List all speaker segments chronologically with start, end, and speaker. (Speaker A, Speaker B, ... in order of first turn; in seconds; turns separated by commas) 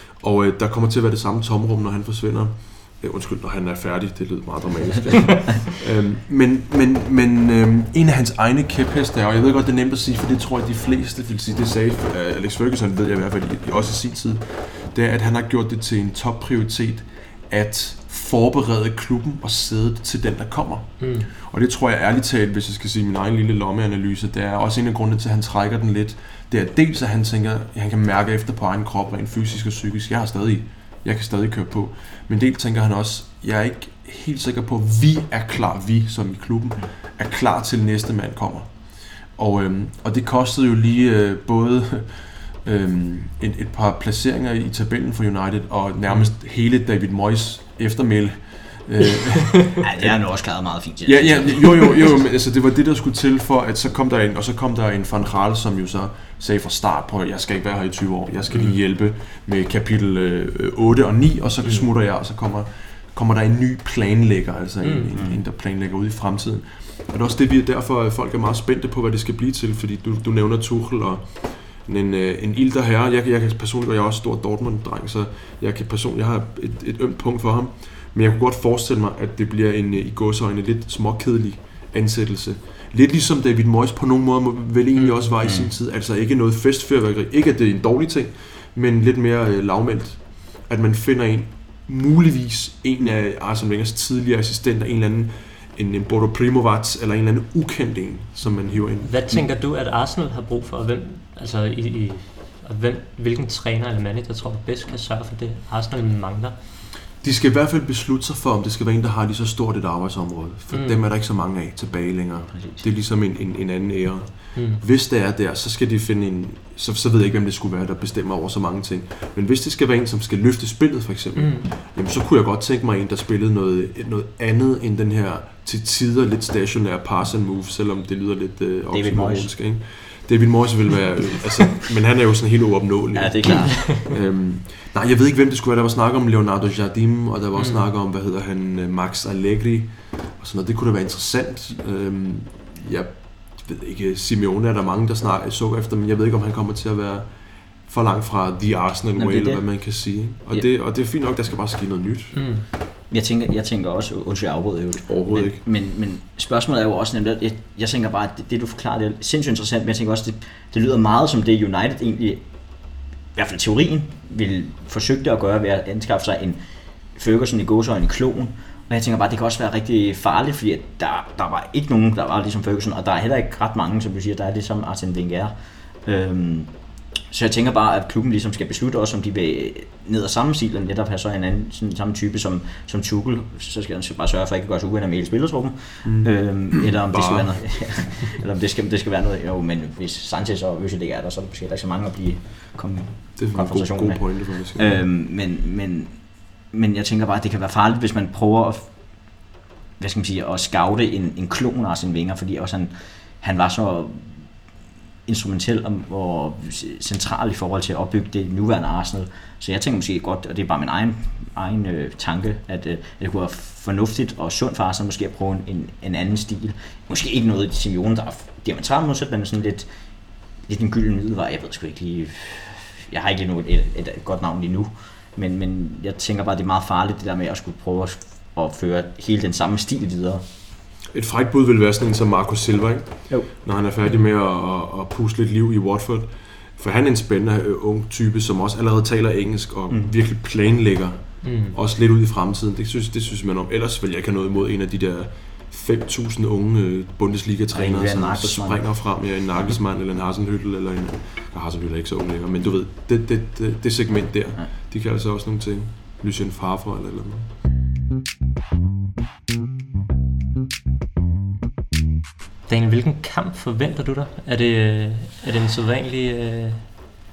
Speaker A: 0.2-50.2, Speaker B: 21.0-21.3, Speaker C: 49.8-52.1, Speaker A: 51.0-99.5, Speaker B: 64.8-65.1, Speaker B: 85.0-85.2, Speaker C: 85.4-85.7, Speaker B: 99.0-106.6, Speaker A: 107.2-152.4, Speaker B: 110.7-111.0, Speaker C: 112.5-112.8, Speaker B: 114.5-114.8, Speaker B: 121.4-121.7, Speaker C: 128.9-129.5, Speaker C: 133.1-133.9, Speaker B: 137.6-137.8, Speaker C: 149.2-149.7, Speaker B: 152.3-152.7, Speaker C: 153.1-162.4, Speaker A: 155.1-155.6, Speaker C: 163.3-166.6, Speaker C: 167.2-175.5, Speaker C: 176.1-176.7, Speaker C: 177.3-198.9, Speaker A: 186.0-188.0, Speaker A: 193.4-195.0, Speaker C: 200.0-204.5, Speaker C: 205.3-219.9, Speaker C: 220.7-230.4, Speaker A: 231.1-257.5, Speaker B: 241.4-241.8, Speaker C: 247.7-248.8, Speaker B: 262.7-267.1